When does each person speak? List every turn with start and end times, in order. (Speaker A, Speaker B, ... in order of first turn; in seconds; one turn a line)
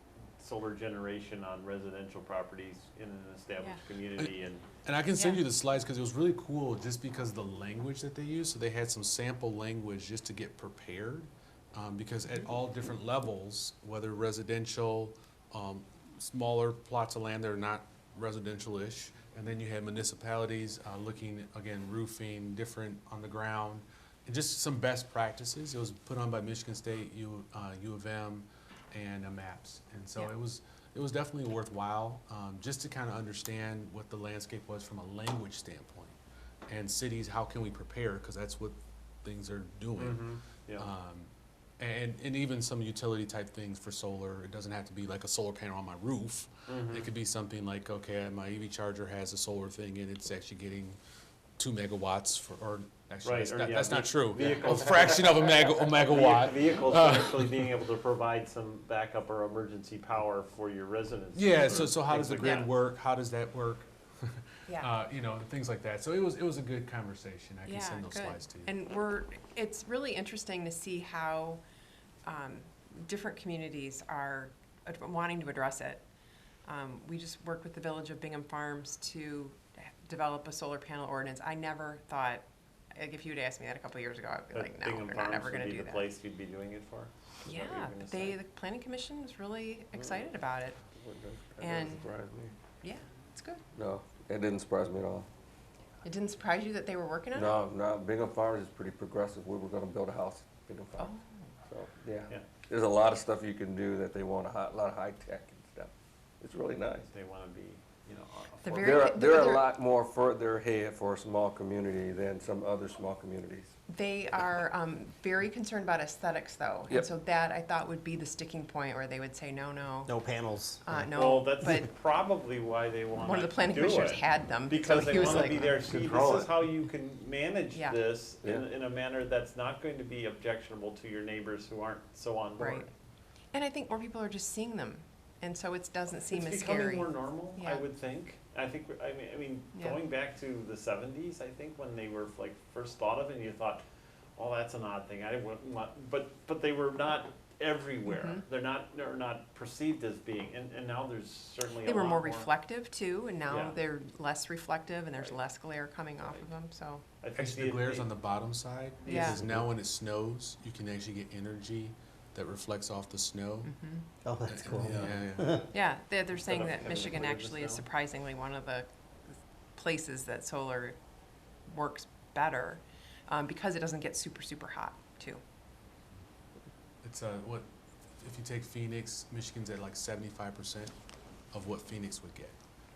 Speaker A: 0.4-4.7
Speaker B: 4.8-36.1
Speaker C: 5.2-5.4
Speaker B: 36.7-51.0
Speaker A: 40.0-40.9
Speaker A: 46.7-47.1
Speaker B: 51.6-57.5
Speaker A: 53.2-62.7
Speaker B: 61.3-68.7
Speaker C: 62.4-62.7
Speaker C: 67.7-71.6
Speaker C: 72.2-76.0
Speaker C: 76.7-86.0
Speaker A: 84.5-88.4
Speaker C: 87.5-90.8
Speaker D: 91.0-92.5
Speaker C: 91.6-92.0
Speaker C: 92.8-93.6
Speaker D: 93.8-95.3
Speaker C: 96.0-97.6
Speaker D: 97.3-101.1
Speaker C: 101.0-101.5
Speaker D: 101.7-107.1
Speaker A: 107.0-109.2
Speaker C: 108.6-109.7
Speaker D: 108.8-113.7
Speaker C: 113.9-120.1
Speaker E: 120.1-121.1
Speaker C: 120.8-121.9
Speaker A: 121.1-132.9
Speaker C: 123.2-126.0
Speaker E: 126.1-126.4
Speaker C: 127.7-128.0
Speaker C: 132.6-132.9
Speaker C: 133.5-137.8
Speaker A: 136.3-143.8
Speaker A: 144.4-152.5
Speaker C: 148.1-148.4
Speaker C: 151.8-157.0
Speaker A: 153.5-153.8
Speaker A: 156.2-156.5
Speaker A: 157.2-158.1
Speaker B: 157.4-163.8
Speaker C: 159.1-159.4
Speaker E: 159.2-159.7
Speaker C: 163.7-164.1
Speaker E: 164.2-165.6
Speaker B: 164.4-165.7
Speaker C: 165.7-171.0
Speaker A: 166.4-167.9
Speaker C: 171.7-175.4
Speaker B: 177.0-180.9
Speaker B: 181.5-182.6